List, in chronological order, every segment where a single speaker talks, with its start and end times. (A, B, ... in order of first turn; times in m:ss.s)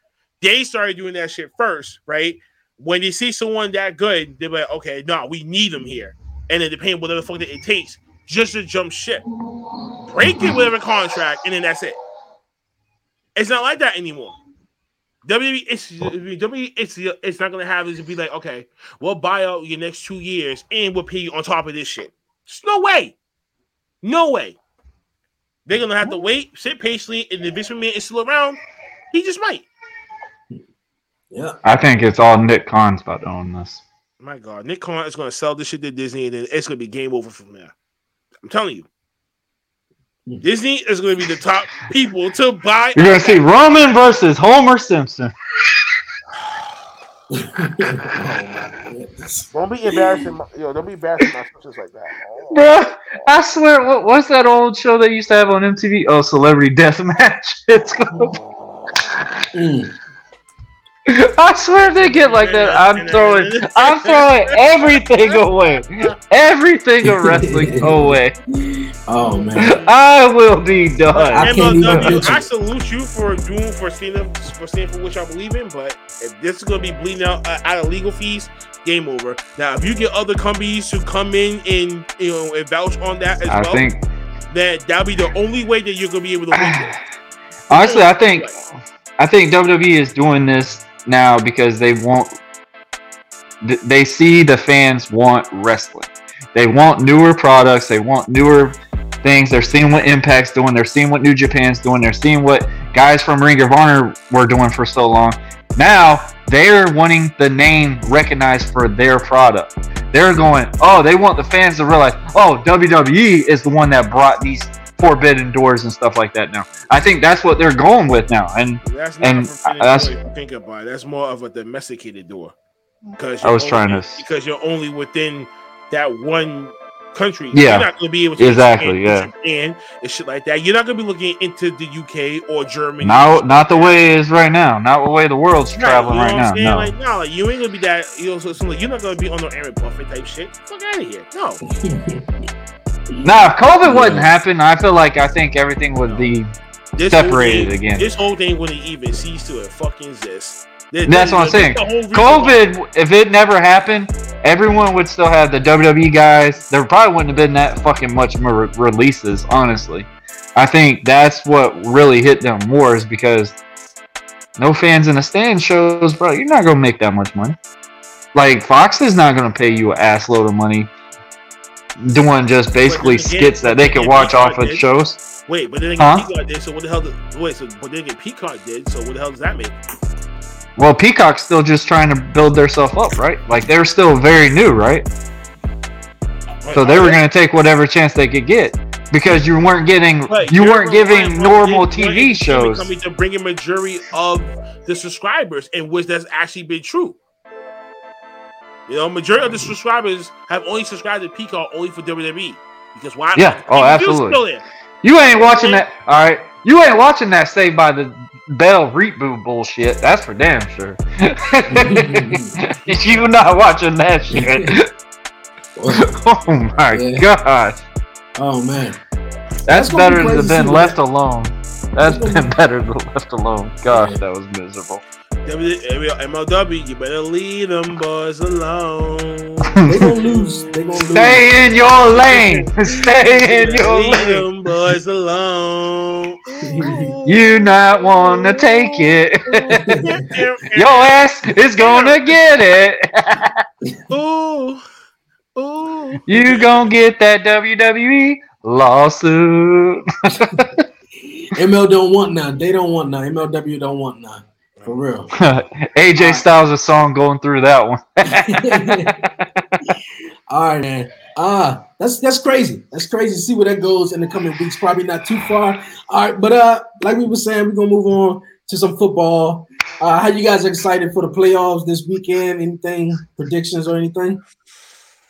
0:00.4-0:09.2 A
0:10.0-0:12.0 A
0:13.4-0:14.4 A
0:15.2-0:23.2 A
0:24.0-0:24.6 A
0:25.6-0:28.6 A
0:29.1-0:29.7 A
0:31.3-0:31.6 B
0:31.6-0:33.8 C
0:34.2-0:37.7 A
0:38.4-0:38.9 A
0:40.4-0:44.0 A
0:42.9-0:45.3 C
0:46.4-0:46.7 A
0:47.4-0:49.5 B
0:49.5-0:52.7 A
0:52.5-0:58.4 C
0:59.5-0:59.9 B
1:01.1-1:08.3 C
1:02.0-1:06.1 A
1:07.0-1:09.8 B
1:09.4-1:09.9 A
1:09.6-1:12.3 C
1:11.1-1:23.9 A
1:11.4-1:12.4 B
1:23.5-1:24.0 C
1:24.5-1:27.0 A
1:26.5-1:27.0 C
1:27.7-1:28.6 C
1:27.7-1:28.5 A
1:29.2-1:32.3 C
1:33.6-2:00.1 C
1:58.8-2:02.5 A
2:03.2-2:14.1 A
2:03.4-2:04.2 C
2:07.5-2:09.3 C
2:13.0-2:16.9 C
2:15.7-2:21.6 A
2:21.7-2:22.2 B
2:23.2-2:26.5 C
2:23.8-2:24.3 B
2:26.9-2:32.6 A
2:27.1-2:28.1 C
2:31.0-2:43.6 C
2:44.6-2:47.6 C
2:48.3-2:50.9 C
2:52.0-2:55.2 C
2:52.9-2:54.8 A
2:55.5-2:59.7 A
2:56.0-2:56.3 C
3:00.8-3:05.1 C
3:06.6-3:07.2 A
3:06.7-3:12.9 C
3:10.3-3:17.2 A
3:18.9-3:24.6 A
3:23.3-3:24.4 C
3:25.0-3:34.9 C
3:25.5-3:25.9 A
3:31.7-3:32.6 B
3:34.3-3:34.7 B
3:35.8-3:36.1 B
3:35.9-3:37.8 C
3:36.9-3:37.2 B
3:38.4-3:39.0 B
3:39.7-3:45.0 C
3:39.7-3:41.0 B
3:42.0-3:42.5 B
3:43.9-3:44.2 B
3:45.4-4:02.4 A
3:49.8-3:50.1 C
3:49.9-3:51.5 B
3:51.0-3:54.4 C
3:56.7-3:57.1 B
3:57.2-4:00.0 C
3:59.8-4:00.1 B
4:00.7-4:03.6 C
4:04.1-4:04.8 A
4:05.6-4:06.9 A
4:06.3-4:10.8 C
4:11.2-4:15.3 B
4:14.8-4:15.0 A
4:15.3-4:19.2 C
4:16.2-4:16.4 B
4:18.2-4:19.3 B
4:20.5-4:34.4 B